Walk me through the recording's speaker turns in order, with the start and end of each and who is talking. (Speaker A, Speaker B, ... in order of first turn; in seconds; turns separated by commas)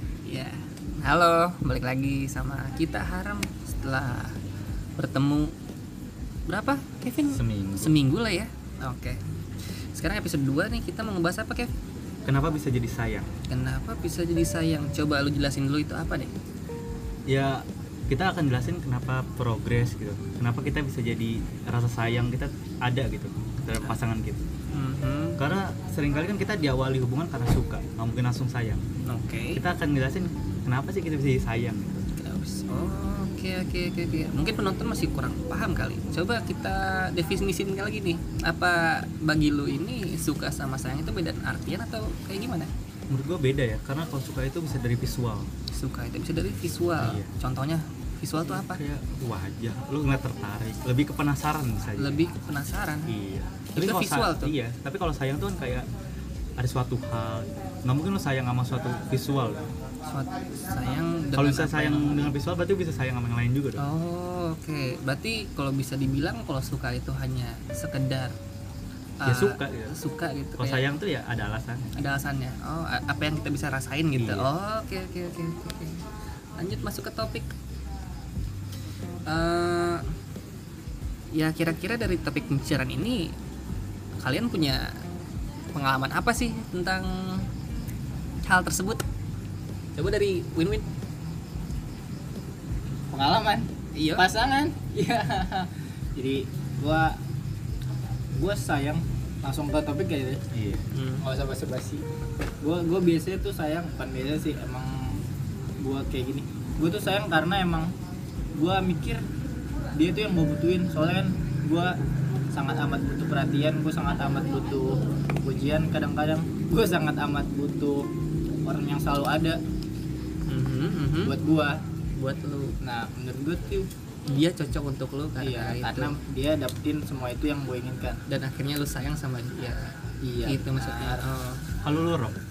Speaker A: 0.3-4.4, Speaker A: 5.0-5.5, Speaker A: 6.5-11.7, Speaker B: 7.2-7.9, Speaker B: 12.2-13.3, Speaker A: 13.5-16.3, Speaker B: 17.3-24.4, Speaker A: 24.7-25.4, Speaker B: 25.4-28.8, Speaker A: 29.1-29.6, Speaker B: 29.5-32.1, Speaker A: 32.2-42.7, Speaker B: 43.1-45.5, Speaker A: 45.7-48.8, Speaker B: 47.0-47.3, Speaker B: 48.5-52.1, Speaker A: 52.0-53.1, Speaker B: 53.1-55.9, Speaker A: 53.8-54.5, Speaker B: 56.6-59.7, Speaker A: 60.1-62.4, Speaker B: 61.4-63.8, Speaker A: 63.8-68.3, Speaker A: 69.2-70.8, Speaker B: 69.2-70.0, Speaker B: 70.6-71.9, Speaker A: 72.0-76.0, Speaker B: 74.2-74.5, Speaker A: 76.6-77.5, Speaker A: 79.3-80.0, Speaker A: 81.3-83.3, Speaker A: 84.2-84.9, Speaker A: 85.7-87.5, Speaker A: 88.5-89.0, Speaker A: 90.0-90.9, Speaker C: 93.1-97.2, Speaker A: 93.9-94.2, Speaker C: 98.4-100.4, Speaker B: 100.5-100.9, Speaker A: 100.9-101.3, Speaker C: 101.2-102.0, Speaker C: 102.6-105.2, Speaker C: 105.8-107.9, Speaker C: 108.6-109.2, Speaker C: 110.0-112.0, Speaker C: 112.5-118.0, Speaker C: 118.7-119.6, Speaker A: 120.5-121.4, Speaker C: 121.2-121.7, Speaker A: 122.2-122.8, Speaker C: 122.8-123.9, Speaker A: 124.3-126.2, Speaker C: 125.4-128.2, Speaker A: 128.3-129.9, Speaker C: 130.2-131.2, Speaker A: 130.5-131.7, Speaker B: 131.8-132.4